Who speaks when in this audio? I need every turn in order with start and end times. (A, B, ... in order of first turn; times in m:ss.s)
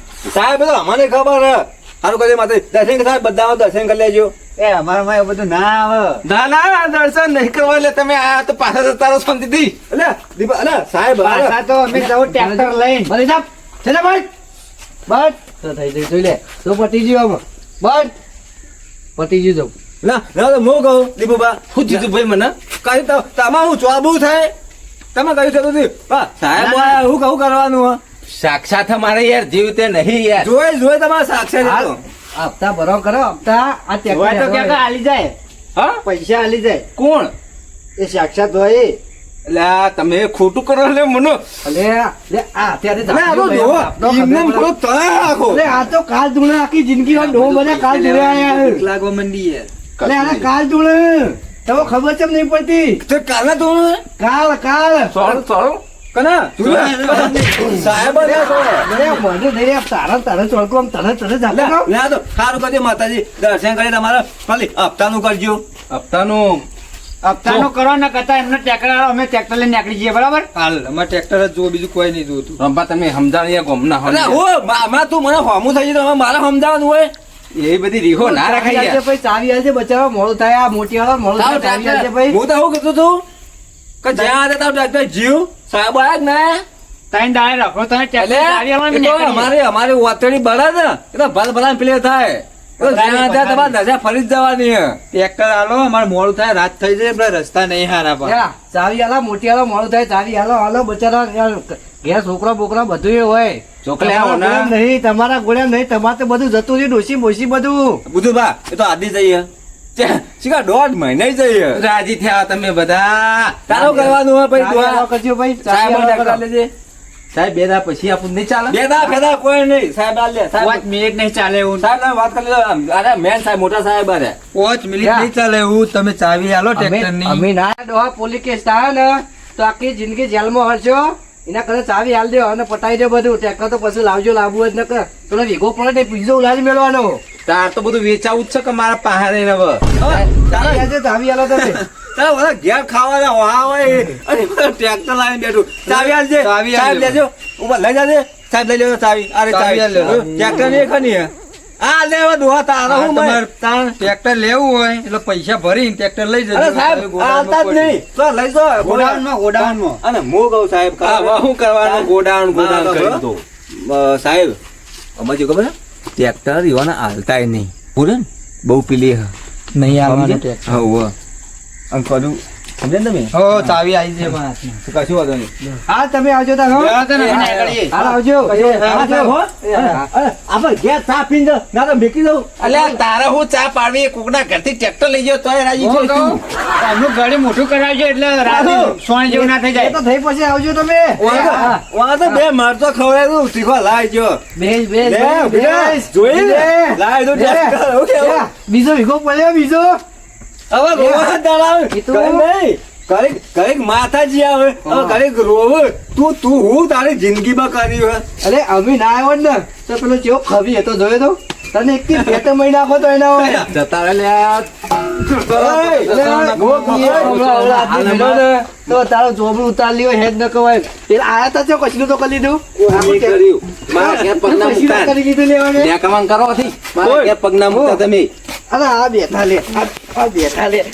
0:00.2-0:04.3 A
0:04.6-0:06.2 B
0:06.2-0:09.8 C
0:09.9-0:11.6 A
0:11.2-0:13.1 B
0:11.9-0:14.3 D
0:15.1-0:18.1 D
0:19.2-0:19.7 D
0:20.0-0:22.0 A
0:21.7-0:22.6 C
0:22.6-0:24.5 A
0:25.1-0:28.0 A
0:26.6-0:27.0 B
0:28.3-0:30.5 C
0:30.4-0:32.0 A
0:31.6-0:34.8 D
0:34.1-0:35.4 B
0:35.8-0:36.0 C
0:36.0-0:36.8 B
0:37.0-0:37.3 C
0:38.0-0:39.0 B
0:39.5-0:41.4 C
0:41.6-0:44.7 D
0:43.1-0:45.6 A
0:45.4-0:48.8 D
0:47.1-0:49.7 E
0:50.0-0:50.5 C
0:50.0-0:53.0 D
0:53.1-0:54.0 A
0:54.2-0:55.4 D
0:55.1-0:55.8 C
0:56.1-0:58.9 A
0:57.1-0:57.6 B
0:57.2-1:01.9 D
1:01.5-1:05.6 A
1:05.9-1:06.7 C
1:07.2-1:10.5 B
1:10.5-1:12.6 E
1:12.6-1:14.4 C
1:14.1-1:17.1 A
1:17.5-1:19.0 C
1:18.2-1:22.4 D
1:21.4-1:22.1 C
1:22.2-1:23.2 A
1:24.0-1:26.6 A
1:27.1-1:29.5 B
1:28.2-1:35.0 A
1:32.8-1:33.7 B
1:35.1-1:38.4 E
1:38.2-1:48.0 D
1:43.8-1:44.8 C
1:48.1-1:51.8 A
1:51.7-1:54.1 C
1:53.7-1:55.0 A
1:53.7-1:56.4 D
1:55.6-1:56.7 C
1:57.3-1:58.8 C
1:58.7-2:00.8 A
2:00.6-2:01.9 B
2:01.8-2:04.4 A
2:04.5-2:07.5 E
2:05.0-2:05.3 D
2:06.8-2:17.2 D
2:17.5-2:20.2 C
2:20.0-2:20.9 A
2:20.3-2:21.8 D
2:21.6-2:34.0 A
2:25.9-2:27.2 E
2:29.5-2:30.8 E
2:32.9-2:33.5 E
2:34.0-2:38.0 E
2:36.5-2:44.6 A
2:38.8-2:40.0 B
2:41.0-2:43.4 C
2:45.2-2:49.3 A
2:49.7-2:50.8 E
2:50.0-2:51.1 A
2:51.9-2:53.8 A
2:53.3-2:54.8 E
2:54.8-2:55.5 A
2:55.9-2:57.0 D
2:56.7-2:58.1 B
2:57.1-2:57.8 C
2:57.2-2:57.5 E
2:57.9-3:00.1 D
2:58.4-3:02.8 A
2:58.9-2:59.3 B
3:02.6-3:06.4 C
3:06.0-3:06.4 A
3:06.8-3:10.0 B
3:08.4-3:09.0 A
3:09.3-3:11.8 D
3:11.2-3:14.4 A
3:11.2-3:11.7 B
3:14.6-3:20.0 D
3:15.0-3:18.5 A
3:20.7-3:28.2 A
3:20.9-3:21.3 D
3:21.9-3:22.5 D
3:24.8-3:25.2 D
3:28.4-3:33.6 D
3:32.2-3:32.4 A
3:33.6-3:38.6 C
3:35.5-3:37.5 A
3:36.0-3:45.9 D
3:42.8-3:45.2 C
3:42.9-3:43.6 A
3:45.7-3:48.3 C
3:47.0-3:47.4 A
3:47.7-3:48.0 D
3:48.7-3:50.0 D